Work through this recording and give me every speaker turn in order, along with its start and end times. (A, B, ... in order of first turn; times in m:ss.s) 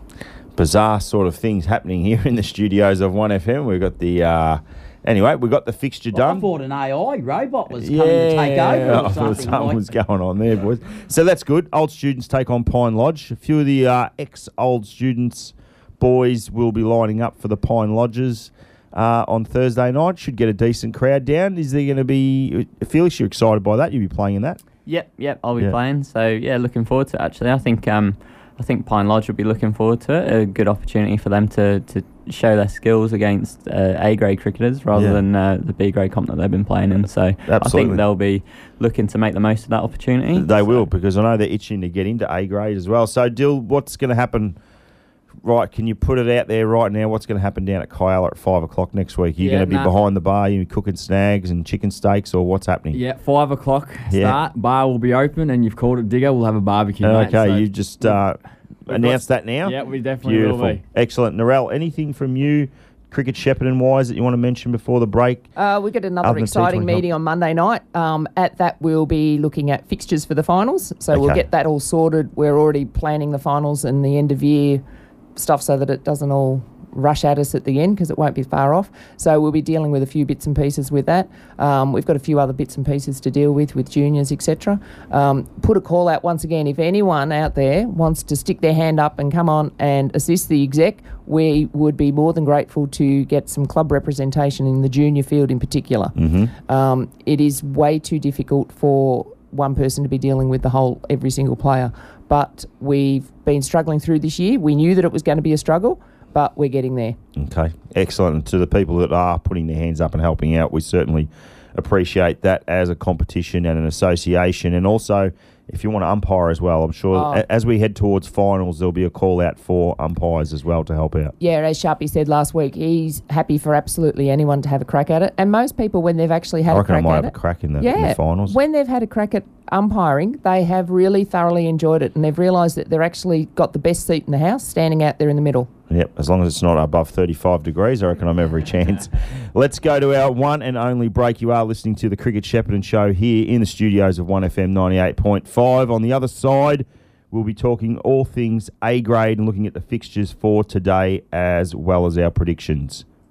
0:00.6-0:06.5 A
0:06.1-0:09.8 B
0:07.8-0:24.6 A
0:24.8-0:40.5 C
0:34.9-0:35.2 A
0:37.5-0:38.0 A
0:40.3-0:44.6 A
0:45.4-0:53.0 A
0:49.4-0:49.9 D
0:52.9-0:58.1 D
0:54.1-0:54.4 A
0:57.0-1:05.5 A
0:58.9-1:00.8 D
1:05.6-1:14.8 E
1:06.2-1:07.0 A
1:11.1-1:11.4 A
1:15.4-1:36.2 E
1:36.2-1:36.5 A
1:36.7-1:47.2 E
1:47.4-2:01.3 A
1:57.1-1:57.4 E
2:01.4-2:15.7 E
2:06.7-2:08.6 A
2:15.9-2:33.0 A